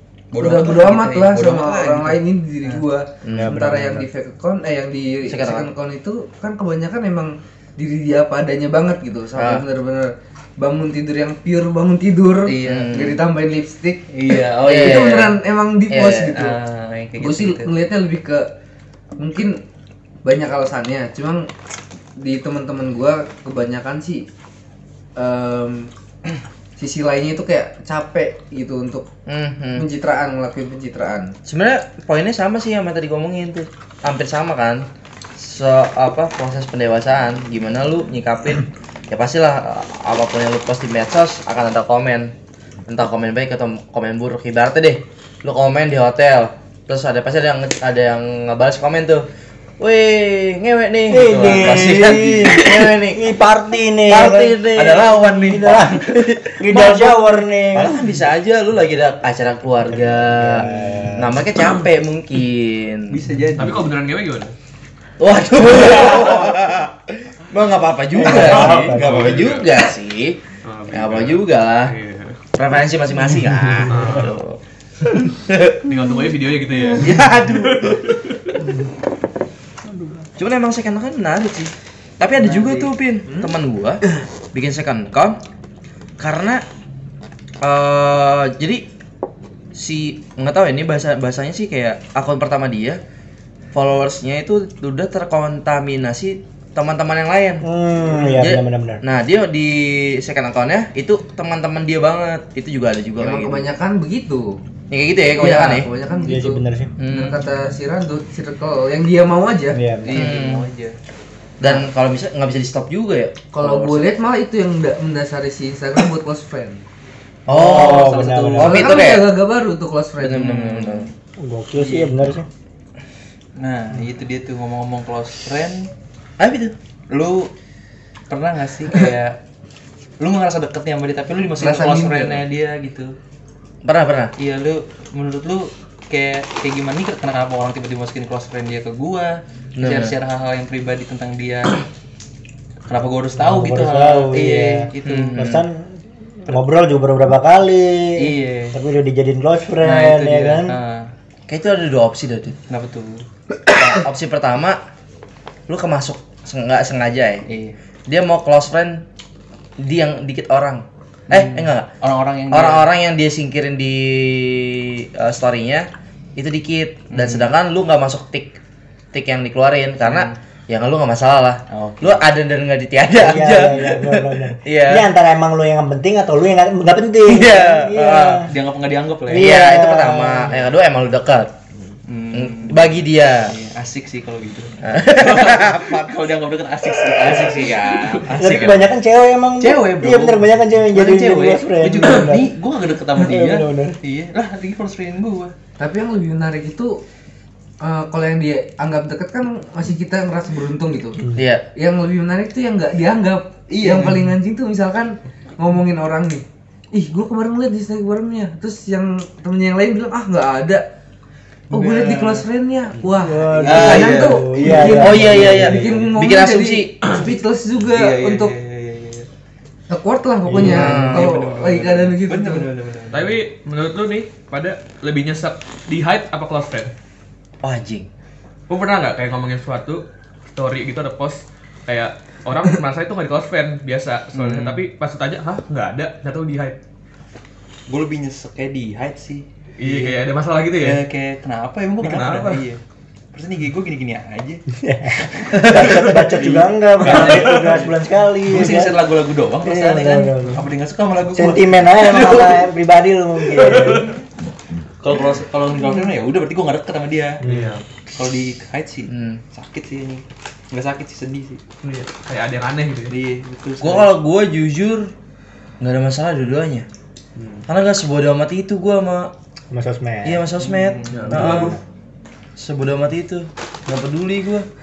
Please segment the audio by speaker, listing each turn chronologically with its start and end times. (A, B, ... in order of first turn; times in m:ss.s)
0:00.3-0:02.8 A
0:00.4-0:16.6 B
0:03.2-0:03.6 C
0:03.3-0:04.0 D
0:05.3-0:05.7 C
0:09.4-0:09.6 C
0:12.5-0:13.0 A
0:12.6-0:13.2 C
0:14.1-0:15.3 A
0:14.6-0:15.4 C
0:15.9-0:16.4 C
0:16.4-0:17.7 A
0:17.2-0:18.5 B
0:19.2-0:19.6 B
0:20.2-0:21.5 B
0:22.2-0:24.3 B
0:25.2-0:25.9 B
0:26.8-0:29.1 B
0:29.3-0:29.8 C
0:29.8-0:31.3 B
0:31.5-0:42.3 C
0:42.9-0:49.3 C
0:49.8-0:53.2 C
0:51.1-0:58.0 D
0:54.1-1:03.2 C
1:00.0-1:01.5 D
1:03.1-1:03.9 A
1:03.6-1:04.5 E
1:05.2-1:10.4 C
1:08.1-1:09.5 D
1:08.2-1:09.7 E
1:10.6-1:12.4 E
1:10.9-1:11.9 C
1:12.5-1:14.6 C
1:13.5-1:13.9 D
1:13.9-1:14.4 E
1:15.3-1:16.0 C
1:15.9-1:18.6 E
1:17.0-1:18.1 C
1:18.6-1:18.9 D
1:19.9-1:20.2 D
1:20.4-1:24.0 C
1:22.6-1:22.8 A
1:22.8-1:23.5 B
1:24.5-1:25.4 C
1:26.2-1:26.6 C
1:27.6-1:28.8 C
1:29.8-1:33.0 C
1:33.7-1:37.6 C
1:37.6-1:39.0 D
1:38.2-1:43.7 C
1:43.2-1:44.6 B
1:44.9-1:45.9 C
1:45.4-1:49.8 B
1:46.2-1:46.9 D
1:47.0-1:47.4 C
1:49.7-1:50.4 D
1:50.0-1:51.0 A
1:50.1-1:50.7 C
1:51.6-1:54.2 C
1:53.5-1:56.8 B
1:57.5-1:59.3 C
1:57.5-1:58.9 D
1:57.5-1:58.9 A
1:58.6-2:00.7 B
2:00.2-2:01.1 C
2:00.4-2:01.1 A
2:01.4-2:02.5 D
2:01.8-2:02.2 A
2:03.6-2:05.9 A
2:06.4-2:06.8 C
2:07.1-2:07.5 A
2:08.3-2:09.4 A
2:10.2-2:13.2 A
2:11.6-2:12.4 B
2:13.8-2:14.3 C
2:14.4-2:21.8 A
2:19.8-2:20.1 C
2:22.9-2:25.5 A
2:23.4-2:25.9 D
2:25.0-2:25.6 C
2:26.4-2:30.8 D
2:28.2-2:28.8 A
2:29.8-2:31.1 A
2:31.5-2:32.6 C
2:32.7-2:33.2 A
2:33.7-2:34.8 C
2:35.7-2:37.4 C
2:37.5-2:37.8 A
2:38.1-2:39.0 C
2:39.8-2:41.9 C
2:41.3-2:42.9 A
2:42.5-2:48.6 C
2:47.1-2:47.5 A
2:49.1-2:55.1 C
2:50.0-2:50.4 A
2:51.7-2:52.2 A
2:53.2-2:58.5 D
2:57.3-2:58.5 C
2:58.5-2:59.6 A
2:59.3-3:00.6 D
2:59.3-3:01.5 C
3:02.1-3:08.8 A
3:02.3-3:03.5 C
3:04.8-3:06.1 C
3:06.9-3:08.7 C
3:08.4-3:12.5 D
3:09.6-3:15.5 A
3:13.2-3:14.0 D
3:15.8-3:17.0 B
3:17.8-3:21.2 B
3:21.4-3:21.6 C
3:21.8-3:30.8 B
3:23.7-3:24.3 A
3:31.7-3:38.5 B
3:31.7-3:32.4 A
3:33.2-3:36.1 D
3:33.6-3:35.5 A
3:33.8-3:34.1 C
3:34.9-3:37.0 C
3:37.9-3:39.3 A
3:39.9-3:42.7 B
3:40.5-3:41.0 D
3:40.6-3:43.4 A
3:40.6-3:41.4 C
3:43.1-3:46.9 E
3:47.6-3:48.1 C
3:48.7-3:56.8 E
3:54.4-3:54.8 A
3:57.9-4:00.2 A
3:59.8-4:01.0 E
4:00.8-4:02.8 A
4:02.0-4:02.6 E
4:03.3-4:04.6 A
4:04.8-4:09.0 D
4:05.3-4:07.9 A
4:07.1-4:07.8 E
4:08.4-4:12.6 A
4:09.6-4:10.6 D
4:11.3-4:14.1 D
4:13.5-4:14.2 E
4:15.0-4:17.4 A
4:17.4-4:17.8 E
4:17.4-4:17.8 D
4:18.1-4:21.6 A
4:19.1-4:19.4 C
4:21.8-4:23.2 E
4:23.1-4:24.1 A
4:23.8-4:25.1 C
4:25.8-4:26.9 C
4:27.7-4:29.3 C
4:29.7-4:30.5 D
4:30.2-4:31.8 C
4:30.6-4:31.7 A
4:31.1-4:31.8 E
4:31.3-4:31.8 D
4:32.6-4:34.7 C